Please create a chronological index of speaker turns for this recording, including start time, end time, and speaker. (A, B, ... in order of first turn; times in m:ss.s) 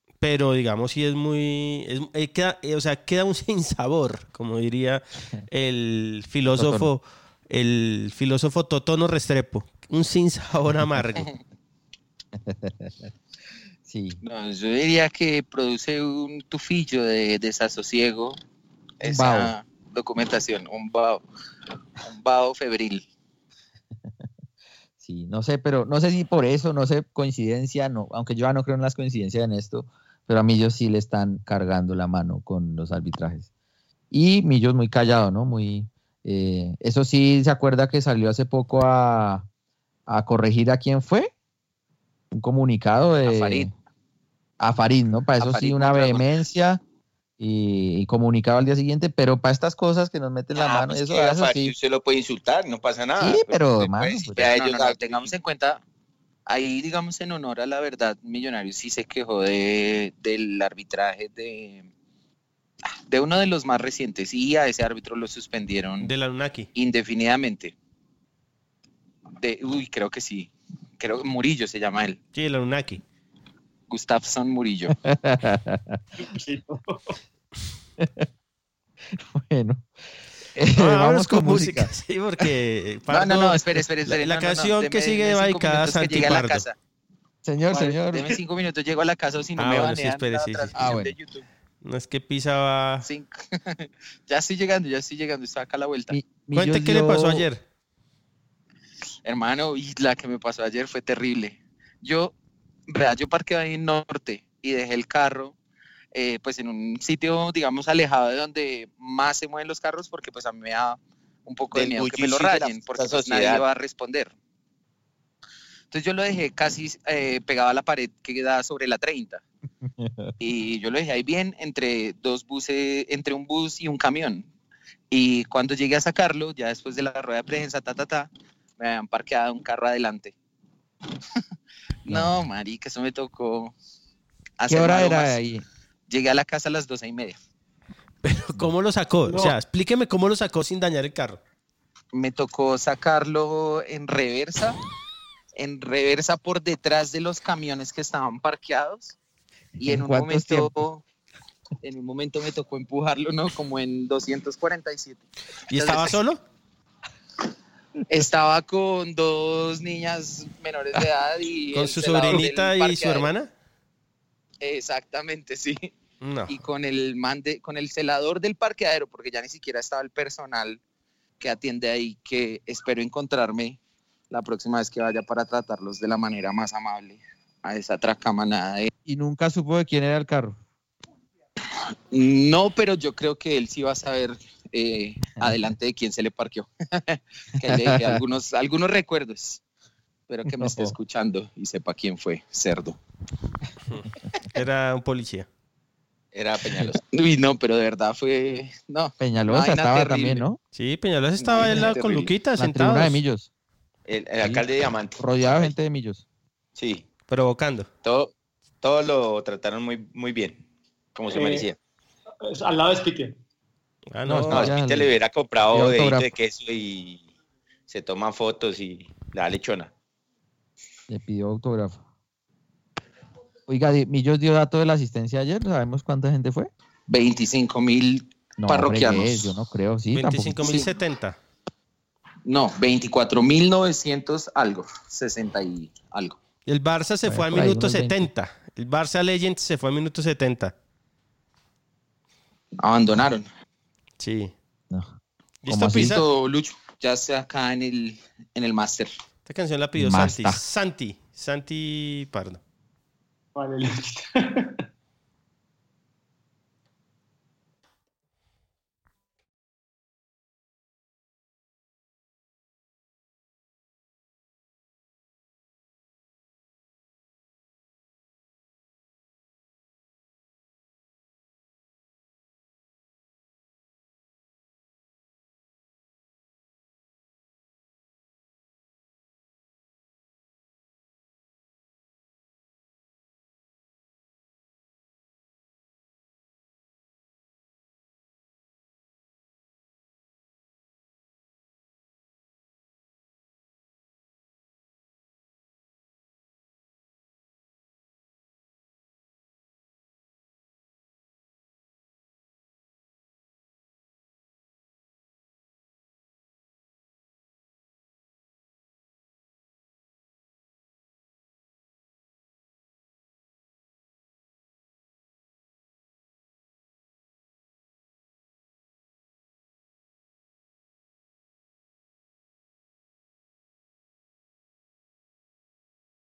0:00.2-0:11.3 A
0:06.5-0:06.9 B
0:12.4-0:13.1 B
0:13.9-0:14.2 B
0:14.2-0:18.4 C
0:19.0-0:21.2 C
0:19.0-0:19.5 B
0:22.0-0:23.1 C
0:25.0-0:33.5 B
0:34.1-0:39.5 B
0:40.1-0:41.3 B
0:42.3-0:43.7 B
0:43.2-0:43.7 C
0:44.6-0:46.8 B
0:45.4-0:46.3 C
0:47.4-0:51.7 B
0:50.6-0:51.4 C
0:51.0-0:55.4 D
0:53.2-0:54.4 B
0:54.4-0:55.8 C
0:56.5-1:01.9 C
1:03.1-1:06.1 C
1:06.0-1:06.7 A
1:06.8-1:07.8 C
1:09.4-1:12.2 C
1:12.4-1:13.0 A
1:13.9-1:14.9 C
1:15.0-1:16.0 B
1:16.2-1:17.2 E
1:18.0-1:18.3 B
1:19.1-1:19.9 B
1:20.5-1:21.9 B
1:20.8-1:26.6 A
1:23.1-1:26.8 C
1:27.4-1:28.3 B
1:27.7-1:31.5 C
1:29.6-1:30.8 A
1:30.8-1:31.1 B
1:31.8-1:33.1 A
1:33.0-1:36.2 C
1:36.1-1:37.5 B
1:36.5-1:37.6 A
1:39.2-1:42.3 C
1:42.9-1:45.6 C
1:46.1-1:54.4 C
1:51.7-1:53.6 D
1:55.9-1:59.4 C
2:00.0-2:00.3 B
2:00.4-2:04.5 C
2:05.1-2:10.4 C
2:12.0-2:13.8 C
2:12.1-2:12.4 B
2:14.6-2:15.4 C
2:14.7-2:15.6 B
2:16.1-2:17.4 C
2:18.2-2:21.4 A
2:19.3-2:19.6 E
2:22.1-2:24.8 C
2:25.6-2:29.2 C
2:29.8-2:30.7 B
2:29.8-2:31.0 C
2:31.8-2:36.2 C
2:35.7-2:36.4 A
2:38.1-2:43.3 C
2:41.7-2:43.5 A
2:44.6-2:45.9 C
2:46.2-2:46.5 A
2:46.5-2:50.8 C
2:51.4-2:53.8 C
2:54.3-2:58.9 C
2:59.0-3:00.6 B
3:02.1-3:09.6 C
3:07.7-3:08.2 B
3:10.3-3:13.0 C
3:10.6-3:11.0 B
3:13.9-3:15.5 A
3:16.3-3:17.0 D
3:17.1-3:20.5 C
3:19.2-3:20.6 B
3:20.7-3:23.2 A
3:21.4-3:22.4 C
3:22.6-3:23.5 B
3:24.1-3:25.7 D
3:24.4-3:26.2 B
3:26.8-3:27.1 D
3:27.3-3:27.9 A
3:28.0-3:30.6 D
3:31.2-3:31.8 D
3:31.3-3:31.7 E
3:32.5-3:33.4 E
3:34.1-3:34.8 A
3:34.3-3:35.1 B
3:34.5-3:37.2 D
3:35.7-3:36.3 B
3:37.9-3:39.9 D
3:41.1-3:42.0 B
3:43.7-3:46.7 B
3:47.1-3:49.6 C
3:48.6-3:50.7 B
3:50.1-3:51.4 A
3:50.6-3:50.9 C
3:52.5-3:56.4 C
3:56.7-4:00.7 A
3:57.2-3:58.3 B
4:02.8-4:03.5 C
4:04.2-4:04.5 A
4:05.6-4:06.2 A
4:05.7-4:06.2 B
4:05.9-4:09.1 C
4:09.5-4:12.6 A
4:10.0-4:10.6 B
4:13.6-4:14.8 E